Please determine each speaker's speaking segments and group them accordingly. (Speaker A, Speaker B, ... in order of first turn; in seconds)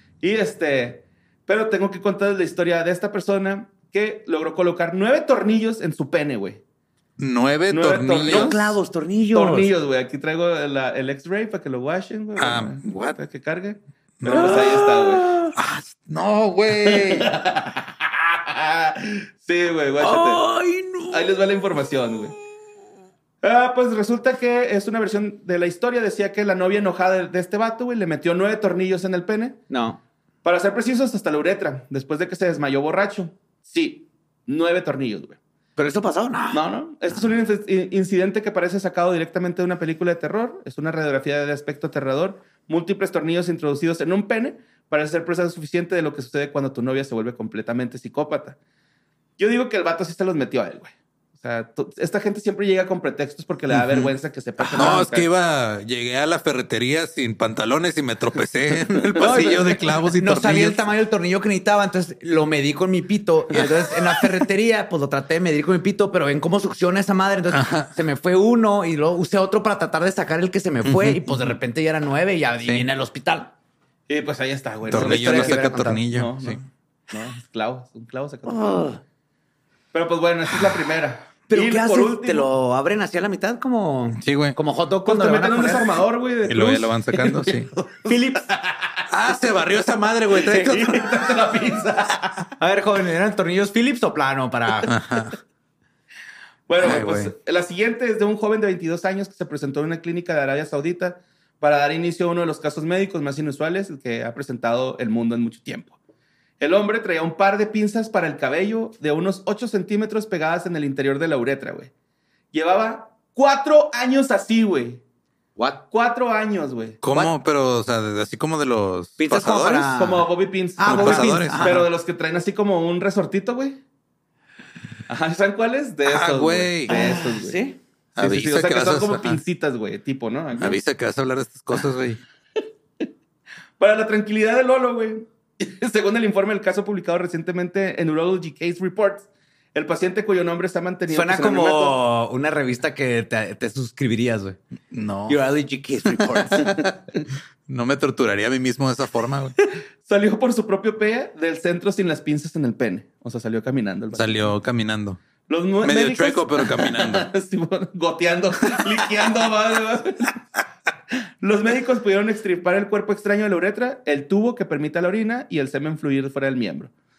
Speaker A: 0.2-6.6, 7.7-8.7, 9.3-15.3, 16.8-20.4, 21.1-22.3, 23.4-29.6, 30.4-35.4, 36.5-48.6, 49.4-55.3, 59.1-59.7, 74.1-78.8, 79.9-82.5, 85.0-89.0, 90.5-92.4, 96.7-106.0, 106.6-111.9, 112.5-115.0, 115.9-117.0, 119.9-123.8, 125.1-127.6, 128.2-130.8, 133.8-142.0, 150.0-154.5, 155.5-160.4, 161.4-166.9
Speaker B: 7.2-8.7, 12.4-13.2, 14.2-14.7, 15.5-17.3, 53.7-54.1, 54.7-60.9, 67.5-68.0, 70.8-71.5, 74.9-76.6, 84.2-84.5, 86.4-87.7, 89.1-91.3, 94.8-95.4, 96.8-97.3, 117.0-119.9, 120.8-121.8, 126.0-126.9, 128.2-129.4, 130.6-132.2, 144.9-145.4, 146.1-147.0, 147.7-149.6, 154.1-155.2, 155.8-157.3
Speaker C: 8.3-9.7, 14.3-15.5, 20.0-21.4, 29.7-30.0, 35.8-36.6, 54.6-55.0, 59.2-73.5, 74.9-76.0, 78.5-79.0, 81.5-86.0, 88.0-88.4, 92.6-95.0, 115.6-115.8, 119.2-121.8, 126.9-127.8, 141.1-144.6, 145.3-146.7